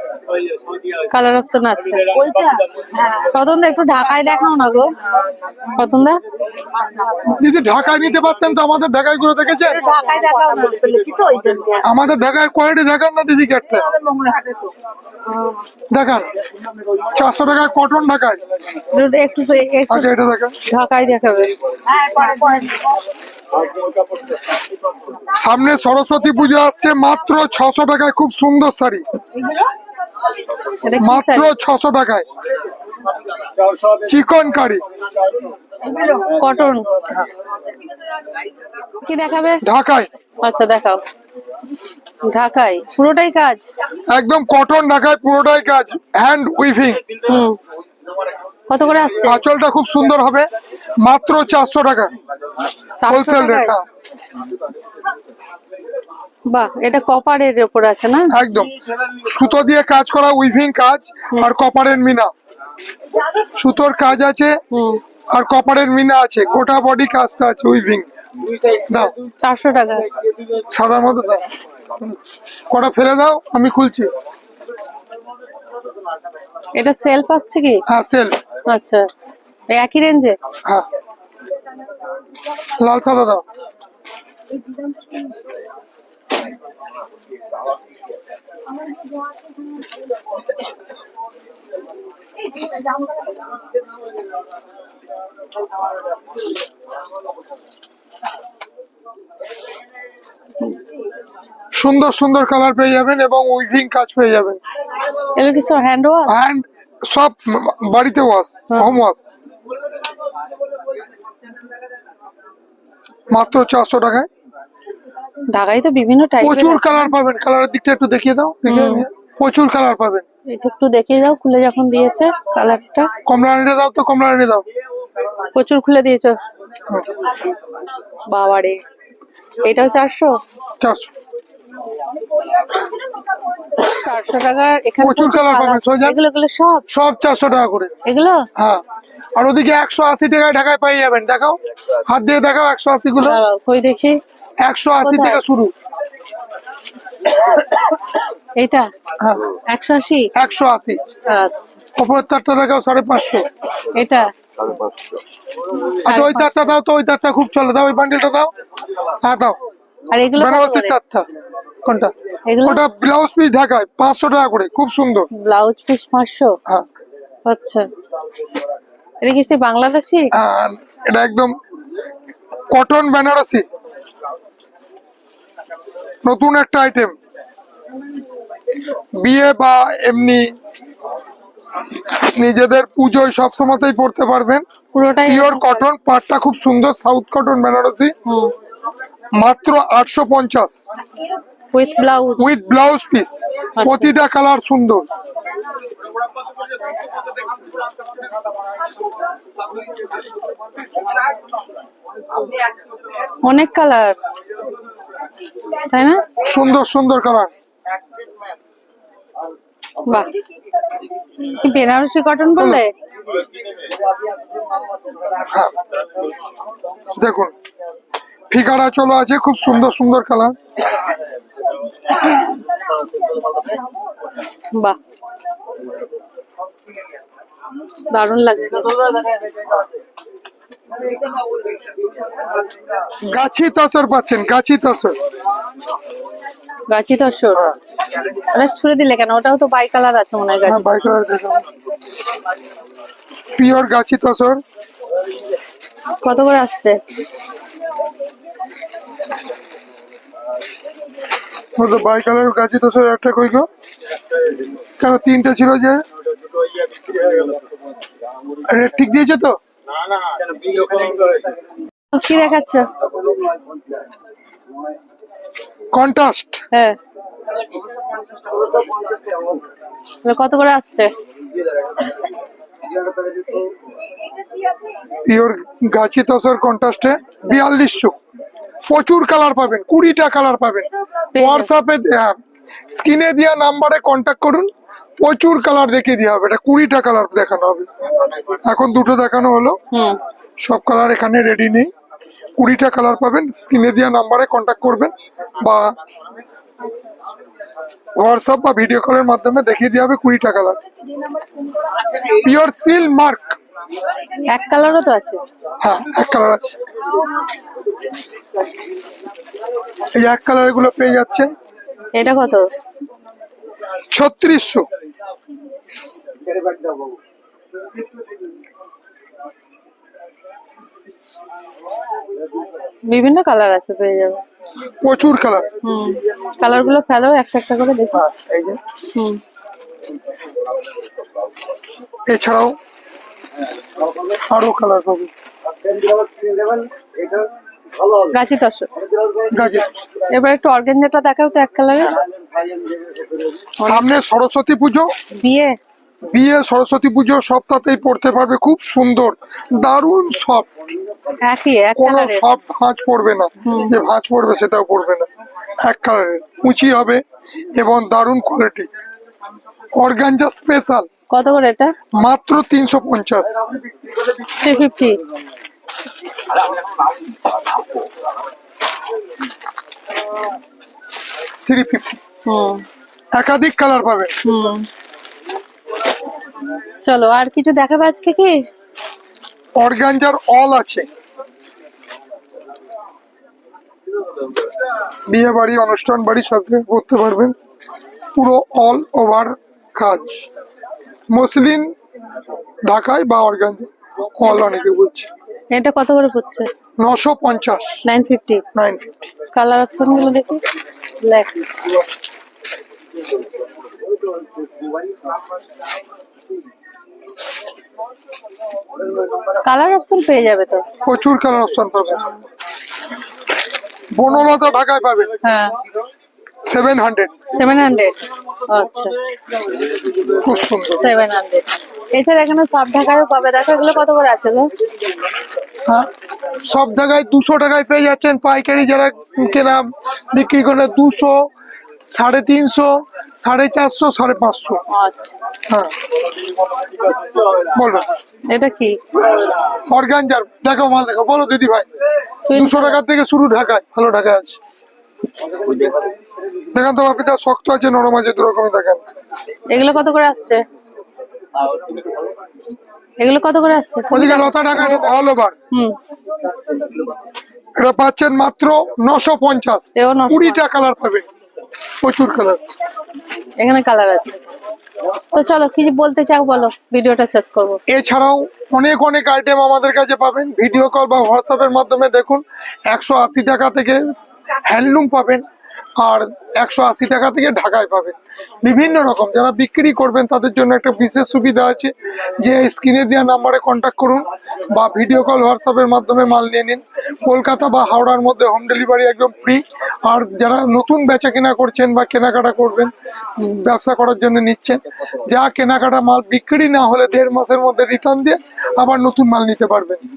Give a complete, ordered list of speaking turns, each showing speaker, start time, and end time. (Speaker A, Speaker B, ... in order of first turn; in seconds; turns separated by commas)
Speaker A: 0.6-1.0, Speaker B: 1.0-2.2, Speaker A: 2.1-3.3, Speaker B: 3.3-4.9, Speaker B: 5.8-6.2, Speaker A: 6.8-7.3, Speaker C: 7.3-9.8, Speaker B: 9.8-10.9, Speaker A: 9.9-11.8, Speaker C: 11.8-13.9, Speaker A: 13.9-14.7, Speaker A: 15.3-15.6, Speaker C: 15.9-16.3, Speaker C: 17.1-18.4, Speaker B: 18.9-20.1, Speaker C: 19.9-20.6, Speaker B: 20.7-21.6, Speaker A: 21.9-23.0, Speaker A: 23.6-24.6, Speaker C: 25.3-29.1, Speaker B: 30.8-31.5, Speaker C: 31.0-32.3, Speaker A: 33.6-34.0, Speaker C: 34.0-34.8, Speaker B: 36.3-36.9, Speaker B: 39.0-39.6, Speaker C: 39.6-40.1, Speaker B: 40.4-41.0, Speaker B: 42.2-43.7, Speaker C: 44.1-47.3, Speaker B: 47.3-47.6, Speaker B: 48.7-49.3, Speaker C: 49.2-52.1, Speaker B: 53.0-53.7, Speaker C: 53.1-53.9, Speaker B: 56.5-58.3, Speaker C: 58.3-62.3, Speaker C: 63.6-64.6, Speaker B: 64.7-65.0, Speaker C: 65.3-68.1, Speaker C: 68.7-69.2, Speaker B: 69.4-70.1, Speaker C: 70.7-72.2, Speaker C: 72.7-74.1, Speaker B: 76.8-77.8, Speaker C: 77.9-78.3, Speaker B: 78.7-79.1, Speaker B: 79.7-80.4, Speaker C: 82.8-83.4, Speaker C: 101.7-104.6, Speaker B: 105.3-106.4, Speaker C: 106.3-109.4, Speaker C: 113.3-114.3, Speaker B: 115.5-117.1, Speaker C: 116.4-120.2, Speaker B: 118.7-119.1, Speaker B: 120.5-123.1, Speaker C: 123.3-124.7, Speaker B: 125.5-126.4, Speaker B: 128.3-128.8, Speaker B: 129.6-130.4, Speaker C: 130.8-131.1, Speaker B: 133.8-136.9, Speaker C: 135.0-136.2, Speaker C: 136.9-137.9, Speaker B: 138.1-138.5, Speaker C: 138.6-138.8, Speaker C: 139.3-143.4, Speaker B: 143.2-144.2, Speaker C: 144.7-145.7, Speaker B: 145.0-145.4, Speaker B: 148.6-148.9, Speaker C: 149.2-149.6, Speaker B: 149.7-150.3, Speaker C: 150.4-151.0, Speaker B: 151.3-151.8, Speaker C: 152.0-153.5, Speaker B: 153.9-154.3, Speaker C: 154.7-154.9, Speaker C: 155.8-158.5, Speaker B: 156.1-156.5, Speaker C: 159.2-159.6, Speaker B: 160.1-160.9, Speaker C: 160.4-161.3, Speaker C: 161.9-162.1, Speaker B: 162.5-162.8, Speaker C: 162.6-165.3, Speaker B: 165.3-166.6, Speaker B: 167.5-167.9, Speaker B: 169.2-170.3, Speaker C: 170.3-171.5, Speaker C: 172.7-173.7, Speaker C: 176.2-177.2, Speaker C: 179.2-180.5, Speaker C: 182.0-184.7, Speaker B: 184.9-185.8, Speaker C: 185.2-188.1, Speaker B: 188.3-188.5, Speaker C: 189.3-190.9, Speaker B: 191.7-192.5, Speaker C: 192.4-195.1, Speaker B: 193.8-194.1, Speaker B: 203.4-204.2, Speaker B: 205.9-206.2, Speaker C: 206.4-207.5, Speaker B: 210.0-210.4, Speaker B: 211.4-212.9, Speaker C: 212.6-212.8, Speaker C: 215.5-215.7, Speaker C: 217.2-217.5, Speaker C: 218.5-220.6, Speaker B: 224.7-225.0, Speaker B: 228.1-229.3, Speaker C: 233.3-235.2, Speaker B: 236.9-237.6, Speaker B: 238.3-240.9, Speaker C: 240.7-241.6, Speaker C: 243.6-244.6, Speaker B: 246.2-247.0, Speaker C: 251.8-253.7, Speaker C: 255.0-256.0, Speaker A: 256.9-257.6, Speaker C: 258.6-259.6, Speaker A: 260.4-261.1, Speaker B: 262.1-262.9, Speaker C: 265.9-266.6, Speaker B: 266.7-267.0, Speaker B: 270.2-271.1, Speaker C: 275.3-278.2, Speaker C: 278.9-282.4, Speaker B: 281.4-281.7, Speaker C: 282.9-287.9, Speaker C: 288.5-289.8, Speaker B: 289.9-290.2, Speaker C: 290.6-291.9, Speaker C: 292.6-295.9, Speaker C: 298.2-300.8, Speaker C: 302.2-303.6, Speaker B: 304.4-305.4, Speaker C: 305.8-306.6, Speaker C: 310.2-311.5, Speaker B: 312.1-312.7, Speaker C: 314.1-314.9, Speaker B: 323.1-324.4, Speaker C: 325.0-325.7, Speaker B: 325.8-328.2, Speaker C: 328.1-328.8, Speaker B: 329.1-329.4, Speaker C: 332.3-332.8, Speaker C: 334.4-335.3, Speaker A: 336.4-336.8, Speaker B: 338.3-338.9, Speaker C: 339.5-339.9, Speaker B: 340.3-342.2, Speaker C: 343.8-345.1, Speaker B: 343.8-344.1, Speaker B: 345.3-345.8, Speaker C: 346.3-350.7, Speaker B: 351.5-352.4, Speaker C: 352.0-355.3, Speaker B: 353.7-353.9, Speaker C: 355.8-357.2, Speaker C: 357.8-358.9, Speaker C: 360.0-361.1, Speaker B: 361.3-361.9, Speaker C: 362.1-363.6, Speaker B: 364.5-365.2, Speaker C: 371.7-372.2, Speaker B: 372.5-372.8, Speaker C: 373.3-374.4, Speaker B: 374.4-374.9, Speaker B: 377.0-378.7, Speaker C: 379.8-381.1, Speaker C: 385.3-387.6, Speaker C: 388.4-390.5, Speaker C: 391.3-391.9, Speaker C: 392.9-395.3, Speaker B: 395.7-396.7, Speaker C: 397.0-398.0, Speaker B: 398.1-398.6, Speaker C: 398.8-399.1, Speaker B: 399.5-400.6, Speaker B: 401.2-402.0, Speaker B: 409.6-410.9, Speaker C: 411.0-412.3, Speaker C: 414.1-415.4, Speaker B: 415.4-415.8, Speaker C: 416.7-417.5, Speaker B: 417.5-419.2, Speaker C: 420.3-421.0, Speaker B: 420.9-424.7, Speaker C: 426.6-431.5, Speaker C: 432.1-434.8, Speaker B: 434.9-435.4, Speaker A: 436.9-437.5, Speaker C: 437.7-438.1, Speaker B: 438.5-439.1, Speaker C: 439.9-441.9, Speaker B: 442.5-443.0, Speaker C: 442.5-444.6, Speaker C: 446.7-449.0, Speaker B: 449.7-450.6, Speaker B: 453.2-454.9, Speaker C: 454.1-455.6, Speaker B: 455.7-456.0, Speaker C: 457.8-461.3, Speaker B: 460.0-460.6, Speaker C: 462.0-462.6, Speaker B: 463.6-464.4, Speaker B: 465.3-467.8, Speaker C: 467.9-474.0, Speaker C: 474.7-475.4, Speaker C: 476.0-500.0